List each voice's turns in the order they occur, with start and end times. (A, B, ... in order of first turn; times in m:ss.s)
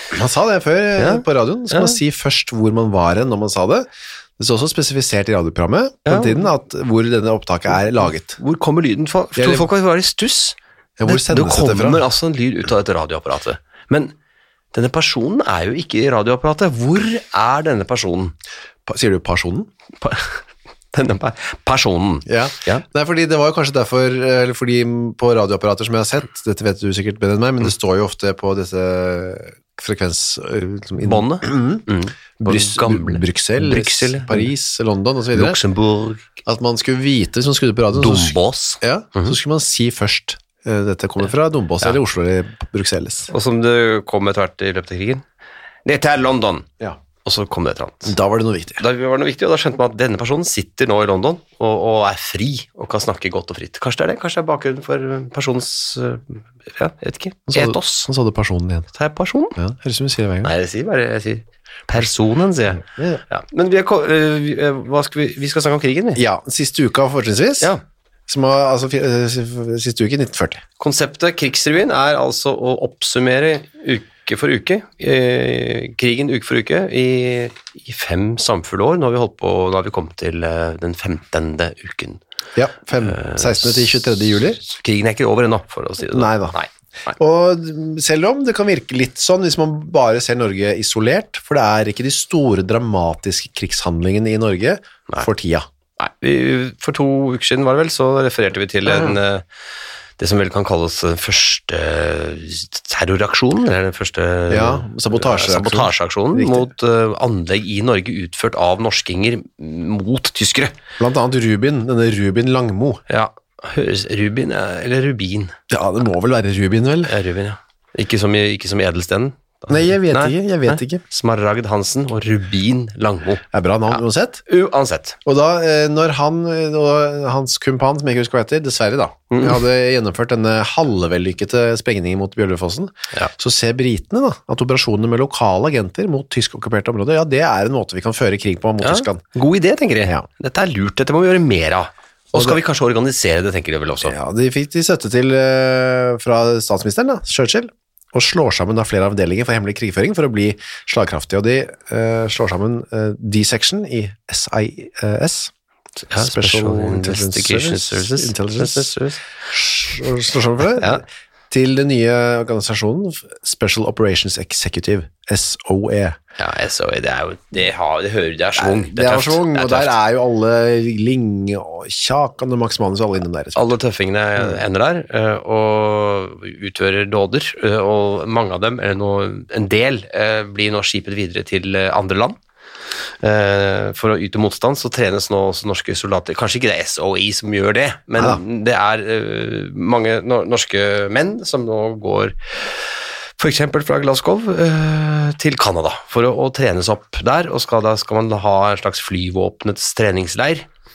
0:00.1-0:08.4 A
0:01.0-0:02.0 B
0:06.0-0:06.4 B
0:08.0-0:14.1 B
0:09.4-0:09.7 A
0:11.0-0:12.0 A
0:14.7-0:18.4 B
0:18.9-0:19.7 A
0:20.0-0:20.4 B
0:20.9-0:22.8 B
0:22.3-0:31.9 A
0:31.0-0:34.5 B
0:32.4-0:35.6 A
0:35.3-0:36.4 B
0:36.4-0:43.3 A
0:37.9-0:39.4 B
0:43.3-0:45.2 B
0:45.8-0:46.7 B
0:47.2-0:48.1 B
0:48.0-0:48.8 A
0:48.8-0:58.1 B
0:57.5-0:58.9 A
0:58.9-0:59.6 B
0:59.6-1:00.5 A
1:00.4-1:06.2 B
1:02.8-1:03.2 A
1:06.2-1:07.7 A
1:08.3-1:10.6 A
1:10.8-1:22.2 B
1:22.6-1:24.6 A
1:23.0-1:27.1 B
1:26.1-1:26.6 A
1:27.1-1:35.7 A
1:36.0-1:39.4 B
1:38.9-1:39.2 A
1:40.2-1:50.8 B
1:44.5-1:46.7 A
1:51.0-1:53.0 A
1:53.1-1:55.6 B
1:55.7-1:57.2 A
1:57.1-2:05.2 B
1:59.7-2:01.0 A
2:03.5-2:04.4 A
2:05.2-2:19.2 A
2:09.3-2:09.6 B
2:18.8-2:24.2 B
2:22.3-2:22.6 A
2:24.0-2:35.5 A
2:36.0-2:39.2 B
2:36.2-2:38.9 A
2:39.5-2:46.2 A
2:46.4-2:50.0 B
2:48.6-2:53.7 A
2:53.6-3:02.4 B
3:03.2-3:20.7 B